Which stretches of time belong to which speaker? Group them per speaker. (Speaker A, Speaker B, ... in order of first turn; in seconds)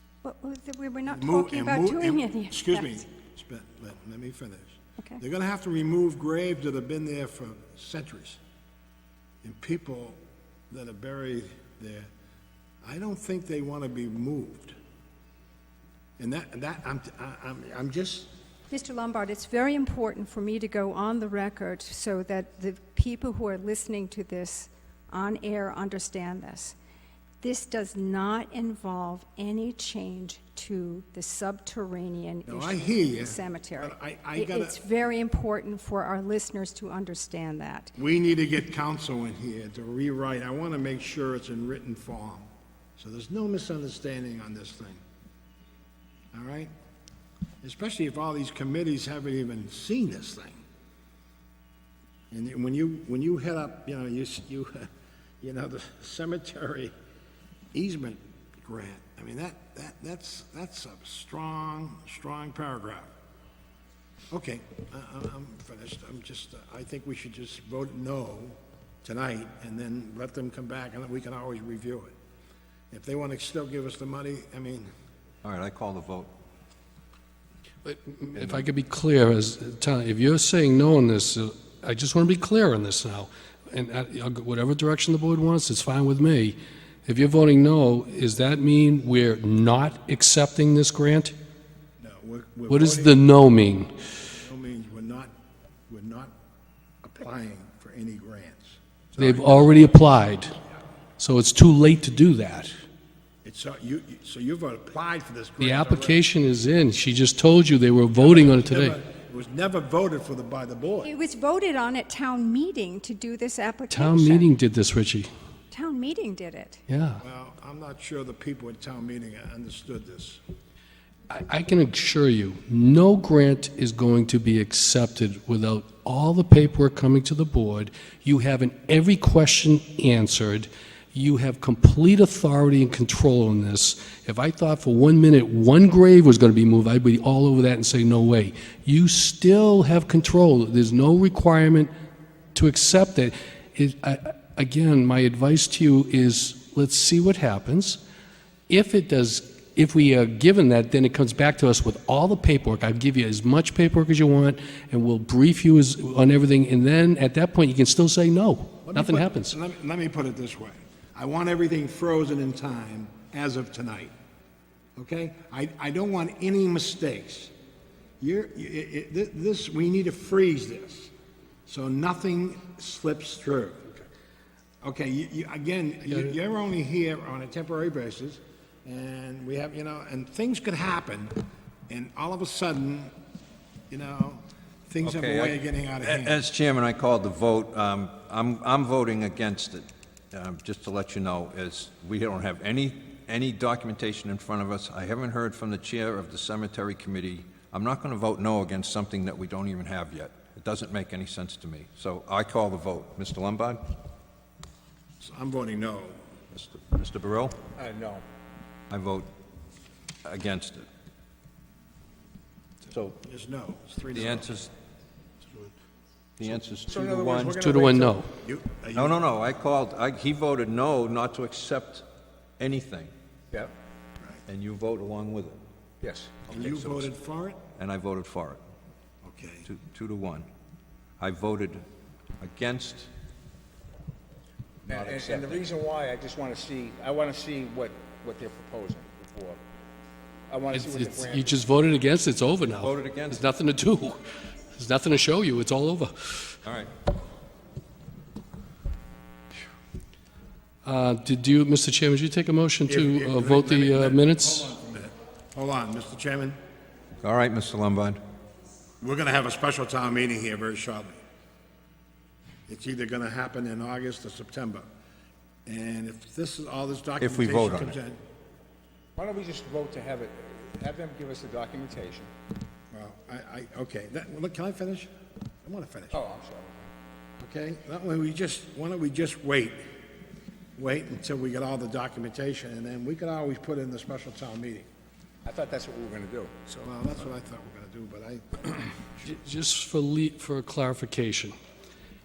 Speaker A: 0.2-3.0, 18.7-26.8, 27.4-38.0, 111.0-114.5, 115.7-116.8
Speaker B: 1.1-8.4, 9.4-10.2, 10.7-12.1, 12.8-14.8, 16.2-18.3, 32.5-34.8, 38.0-45.0, 46.3-46.7, 47.6-50.6, 52.3-54.9, 55.4-56.9, 57.7-63.1, 64.3-72.2, 72.9-74.9, 92.0-93.3, 94.2-95.3, 95.9-96.3, 97.0-100.1, 103.4-106.2, 108.2-111.1, 117.2-120.4, 158.9-164.1, 165.0-167.5, 168.2-171.1, 171.7-173.9, 174.8-183.1, 183.9-186.4, 205.2-206.2, 212.9-214.5, 215.4-215.7, 218.4-219.2, 226.5-227.6, 229.2-229.7, 252.9-256.6, 259.0-261.2, 262.7-264.9, 265.7-268.2, 272.9-275.1, 275.6-276.2, 277.4-279.8, 280.8-284.9, 286.7-289.3
Speaker C: 75.4-76.3, 185.0-203.8, 206.5-207.6, 208.9-209.3, 210.2-210.9, 214.1-214.7, 216.4-217.6, 218.9-222.1, 222.6-223.1, 224.5-225.6, 226.5-227.1, 227.8-228.6, 229.7-230.5, 231.2-231.8, 232.4-233.1, 234.9-235.7, 242.7-243.4, 246.7-246.9, 257.2-258.2, 267.2-268.0
Speaker D: 77.8-91.3, 92.7-93.9, 99.2-100.5, 101.2-102.7, 105.6-109.0, 113.9-115.3, 116.9-117.2, 121.3-141.9, 142.6-148.0, 148.7-159.6, 217.6-218.3, 240.7-244.2, 244.7-246.6, 250.8-254.7, 289.2-291.5
Speaker E: 207.8-208.2, 216.9-218.2, 226.0-226.4, 234.9-239.6, 240.5-241.7, 269.2-272.3, 276.1-276.9, 285.4-286.6